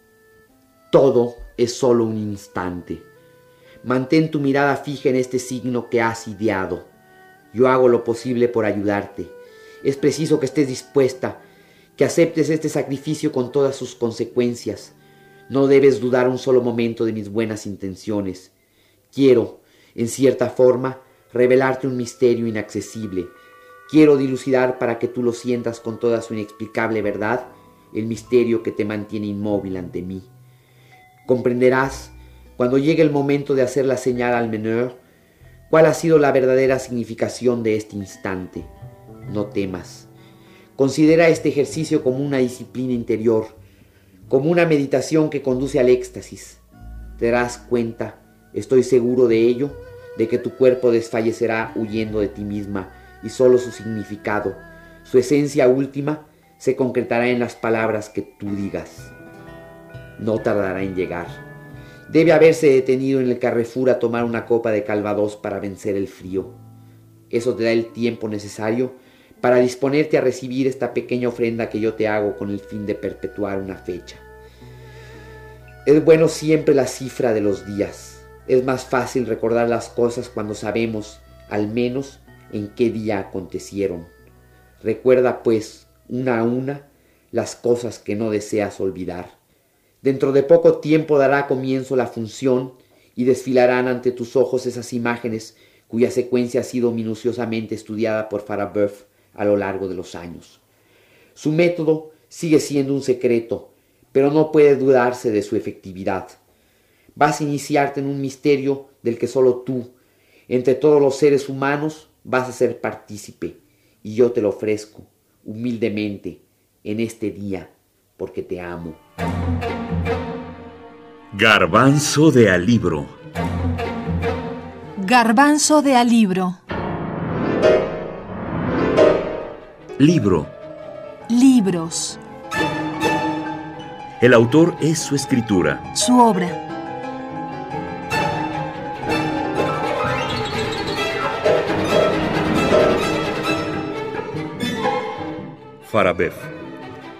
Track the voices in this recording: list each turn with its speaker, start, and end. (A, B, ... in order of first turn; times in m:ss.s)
0:00.9-0:03.0 A
0:03.8-0:06.9 A
0:07.5-0:11.4 A
0:12.0-0:14.9 A
0:15.5-0:18.5 A
0:19.1-0:23.3 A
0:23.9-0:30.3 A
0:31.3-0:35.0 A
0:35.7-0:38.7 A
0:39.3-0:40.1 A
0:40.8-0:43.6 A
0:44.3-0:46.6 A
0:47.2-0:59.1 A
1:00.2-1:01.4 A
1:02.1-1:06.6 A
1:07.3-1:14.2 A
1:15.9-1:24.1 A
1:24.8-1:29.4 A
1:30.0-1:40.6 A
1:41.4-1:46.4 A
1:47.2-1:49.9 A
1:50.5-1:59.0 A
2:01.3-2:03.2 B
2:05.0-2:06.6 C
2:10.0-2:10.6 B
2:11.3-2:12.2 C
2:14.2-2:15.9 B
2:15.9-2:16.6 C
2:25.8-2:26.5 B